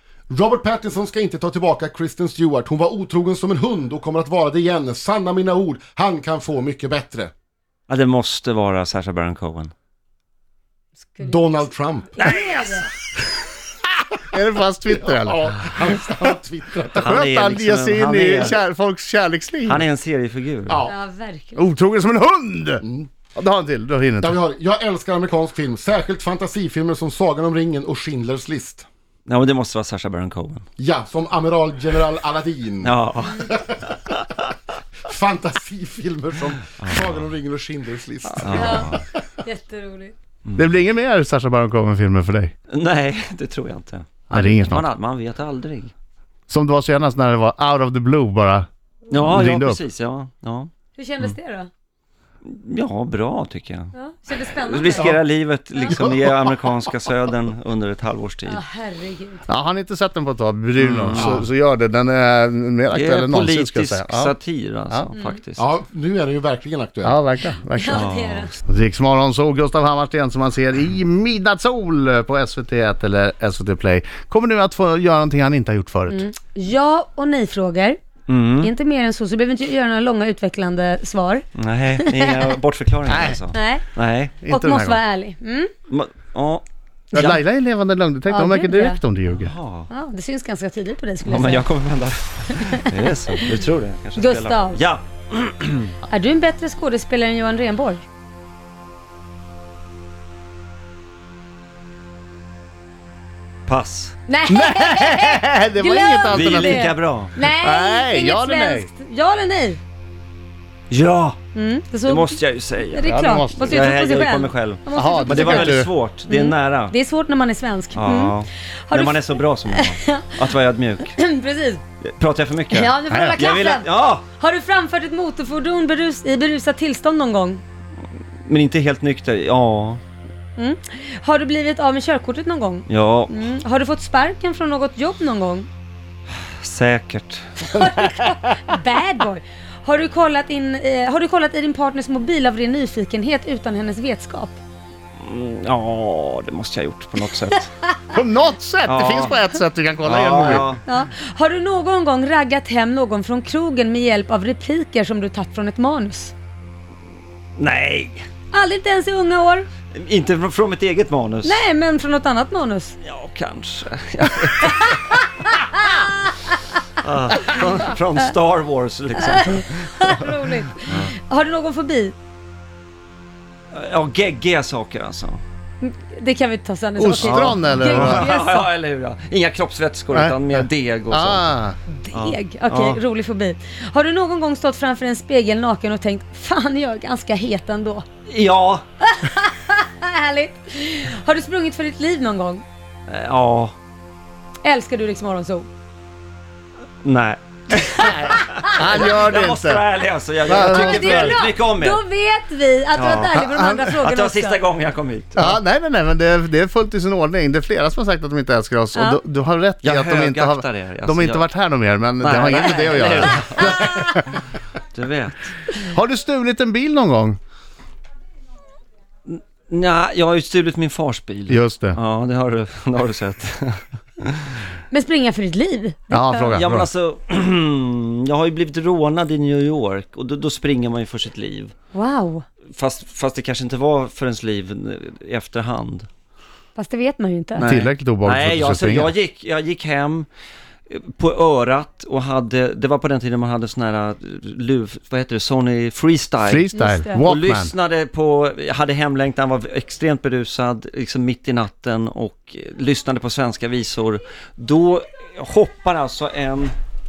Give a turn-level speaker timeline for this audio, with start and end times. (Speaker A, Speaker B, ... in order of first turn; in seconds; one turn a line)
Speaker A: 0.3-7.3
Speaker B: 7.9-9.7
Speaker C: 11.0-11.6
Speaker A: 11.2-12.2
Speaker B: 12.2-12.9
Speaker C: 12.2-12.9
Speaker D: 14.3-16.3
Speaker A: 15.0-17.1
Speaker B: 16.9-18.6
Speaker D: 17.0-19.8
Speaker B: 19.6-20.8
Speaker A: 20.7-20.9
Speaker C: 20.9-21.7
Speaker D: 21.6-22.8
Speaker A: 22.8-23.1
Speaker D: 23.3-24.4
Speaker A: 24.2-28.9
Speaker B: 29.3-30.6
Speaker A: 30.8-33.9
Speaker B: 32.8-34.3
Speaker A: 35.0-39.2
Speaker B: 36.8-37.2
Speaker B: 38.4-39.0
Speaker C: 38.5-40.1
Speaker D: 40.5-42.5
Speaker B: 42.7-45.9
Speaker D: 44.3-44.9
Speaker D: 46.5-49.8
Speaker B: 49.1-50.7
Speaker C: 51.0-51.7
Speaker B: 52.4-53.9
Speaker C: 53.9-55.2
Speaker B: 54.5-58.6
Speaker C: 58.5-59.4
Speaker D: 59.5-64.3
Speaker B: 60.8-61.4
Speaker A: 61.1-61.5
Speaker B: 62.9-65.7
Speaker A: 65.6-67.2
Speaker D: 67.0-68.1
Speaker C: 67.7-68.6
Speaker B: 67.9-68.5
Speaker D: 68.6-76.2
Speaker C: 76.1-78.0
Speaker B: 78.3-78.7
Speaker C: 78.6-81.5
Speaker B: 81.5-84.4
Speaker C: 82.0-82.4
Speaker D: 83.1-83.4
Speaker C: 83.5-83.8
Speaker D: 84.4-85.0
Speaker C: 84.4-85.7
Speaker B: 85.9-86.6
Speaker C: 87.1-87.4
Speaker D: 87.1-89.5
Speaker C: 88.3-89.0
Speaker B: 89.3-89.9
Speaker C: 89.9-91.7
Speaker B: 91.2-95.9
Speaker C: 92.5-92.8
Speaker C: 94.2-94.8
Speaker C: 96.1-98.0
Speaker B: 103.7-104.2
Speaker C: 104.3-109.8
Speaker D: 104.5-108.9
Speaker B: 106.3-107.3
Speaker B: 110.9-111.4
Speaker C: 111.5-118.4
Speaker B: 112.0-116.9
Speaker D: 113.0-113.9
Speaker D: 114.9-115.9
Speaker B: 117.9-121.1
Speaker C: 118.9-120.4
Speaker C: 121.0-121.8
Speaker B: 122.0-124.2
Speaker C: 122.7-127.6
Speaker D: 123.1-123.5
Speaker B: 128.4-130.0
Speaker C: 130.6-135.7
Speaker B: 132.9-133.4
Speaker B: 136.4-137.7
Speaker C: 137.7-144.6
Speaker D: 138.1-138.5
Speaker B: 145.2-147.7
Speaker D: 148.1-150.7
Speaker B: 148.8-149.4
Speaker B: 150.0-150.8
Speaker C: 150.8-156.3
Speaker B: 157.6-158.2
Speaker C: 158.5-159.7
Speaker B: 159.9-161.6
Speaker C: 161.4-162.9
Speaker B: 163.0-165.2
Speaker C: 164.6-166.5
Speaker B: 167.0-170.2
Speaker C: 169.2-172.1
Speaker B: 170.8-171.1
Speaker B: 173.7-175.4
Speaker C: 175.8-178.7
Speaker D: 177.0-178.3
Speaker B: 177.1-181.6
Speaker D: 180.1-181.8
Speaker C: 181.9-188.0
Speaker B: 182.1-183.0
Speaker B: 188.3-188.8
Speaker C: 189.0-192.6
Speaker B: 193.1-193.8
Speaker C: 194.6-195.7
Speaker B: 197.0-202.0
Speaker C: 197.8-199.1
Speaker D: 198.7-199.8
Speaker D: 200.4-201.4
Speaker C: 200.5-204.6
Speaker B: 202.9-205.6
Speaker D: 203.3-203.9
Speaker D: 205.3-214.2
Speaker C: 208.9-209.2
Speaker B: 209.8-211.5
Speaker B: 212.2-214.4
Speaker B: 214.9-215.6
Speaker D: 215.8-217.4
Speaker B: 219.2-224.6
Speaker D: 221.5-222.0
Speaker C: 224.9-226.6
Speaker D: 226.1-226.9
Speaker B: 226.4-231.7
Speaker C: 231.9-232.4
Speaker B: 232.7-236.1
Speaker C: 236.8-237.7
Speaker B: 237.6-240.3
Speaker D: 237.6-239.1
Speaker B: 240.9-256.7
Speaker D: 246.4-247.7
Speaker C: 246.7-247.2